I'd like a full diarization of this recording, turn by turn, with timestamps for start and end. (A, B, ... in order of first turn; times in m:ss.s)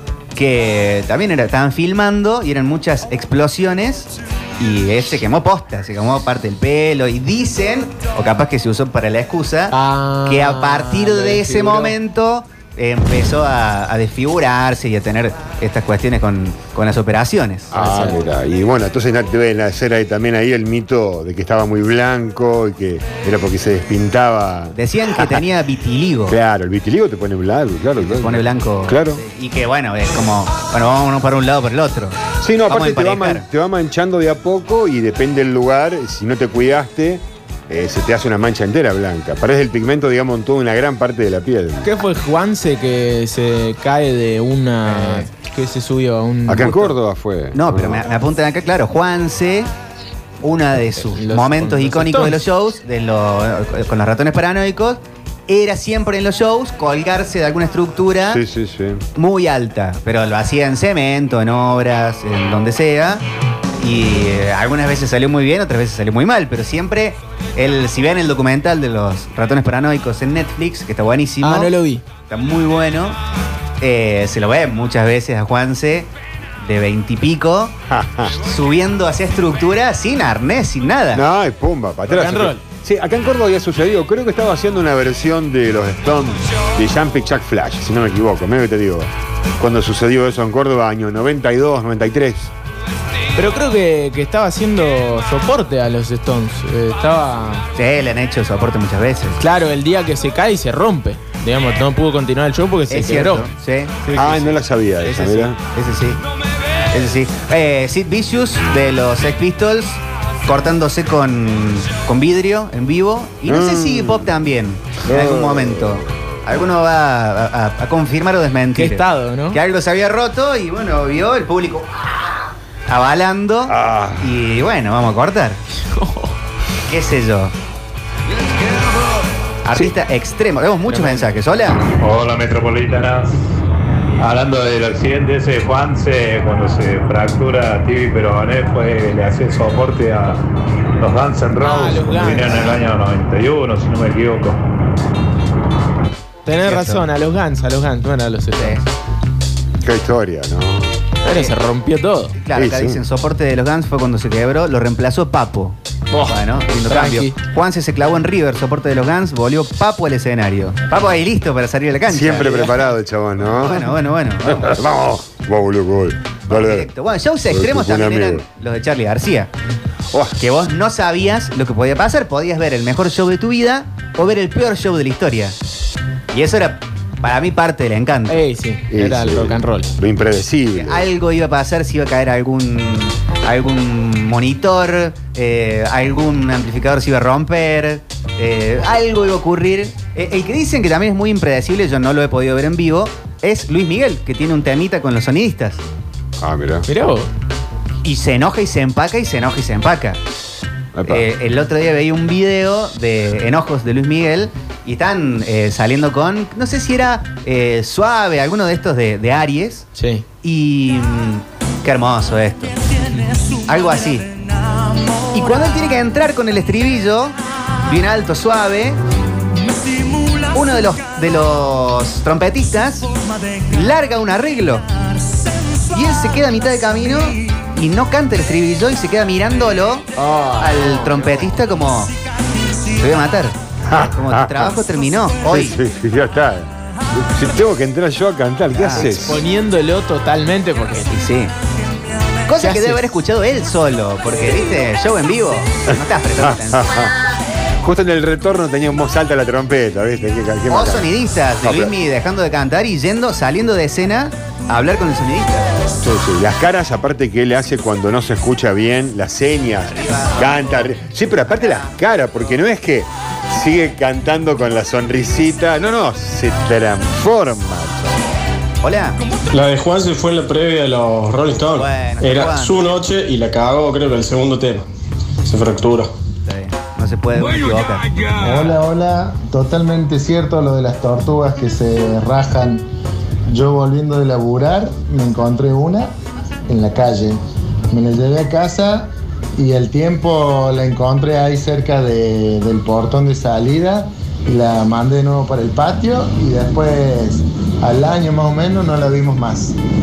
0:00.4-0:17.7 A
0:09.7-0:12.0 B
0:17.7-0:25.4 C
0:17.7-0:18.2 B
0:24.8-0:26.4 A
0:26.3-0:29.2 C
0:28.0-0:33.4 A
0:32.4-0:41.9 C
0:41.8-0:47.0 B
0:46.5-0:48.1 C
0:47.5-0:49.7 A
0:50.4-0:58.4 A
0:51.0-0:52.4 B
0:58.3-0:59.0 C
0:59.2-1:03.2 A
1:03.8-1:11.7 A
1:11.4-1:12.0 B
1:12.3-1:13.2 A
1:13.8-1:17.7 A
1:17.9-1:18.4 C
1:18.4-1:21.3 A
1:21.1-1:32.5 C
1:22.1-1:22.6 B
1:33.4-1:37.7 B
1:37.8-1:39.4 A
1:39.4-1:43.5 B
1:42.9-1:44.4 A
1:44.1-1:45.6 C
1:45.0-1:46.2 A
1:46.9-2:05.6 A
1:53.5-1:54.4 C
1:55.0-1:56.2 C
1:58.8-1:59.6 B
2:03.7-2:04.3 C
2:05.9-2:06.3 B
2:06.9-2:07.5 A
2:09.6-2:11.8 A
2:10.9-2:11.3 B
2:12.0-2:13.4 D
2:14.2-2:20.4 D
2:21.0-2:24.6 D
2:21.6-2:22.7 B
2:26.5-2:28.8 B
2:26.6-2:27.0 A
2:28.6-2:28.8 A
2:29.8-2:31.0 C
2:31.2-2:32.4 B
2:32.4-2:35.8 A
2:32.5-2:33.0 C
2:36.1-2:37.4 B
2:36.3-2:42.8 A
2:42.1-2:46.9 C
2:43.5-2:44.7 A
2:46.5-2:49.5 A
2:47.5-2:48.4 C
2:50.1-2:50.4 C
2:50.4-2:55.6 A
2:56.3-2:58.4 A
2:58.3-2:59.9 B
2:58.9-3:01.1 C
3:00.8-3:15.8 A
3:16.4-3:16.9 C
3:16.9-3:17.3 B
3:18.0-3:20.2 A
3:20.9-3:21.3 C
3:21.1-3:29.9 A
3:30.0-3:30.2 B
3:30.4-3:32.8 A
3:33.6-3:34.3 A
3:35.3-3:39.0 A
3:40.5-3:43.1 A
3:43.7-3:44.9 A
3:45.9-3:50.1 A
3:50.2-3:51.5 B
3:50.6-3:52.1 A
3:52.9-3:55.8 A
3:53.9-3:54.8 C
3:55.5-3:59.4 C
3:58.8-3:59.4 A
3:59.0-4:01.2 B
4:01.1-4:01.5 A
4:02.5-4:07.1 A
4:02.6-4:03.0 B
4:05.9-4:07.1 C
4:07.8-4:11.9 C
4:10.7-4:15.7 A
4:16.0-4:28.3 C
4:19.9-4:22.0 A
4:28.8-4:29.2 A
4:29.5-4:34.8 E
4:31.7-4:32.8 A
4:35.4-4:36.1 E
4:36.4-4:38.2 A
4:38.3-4:42.8 F
4:43.5-4:46.1 F
4:46.7-4:47.4 F
4:47.9-4:59.8 F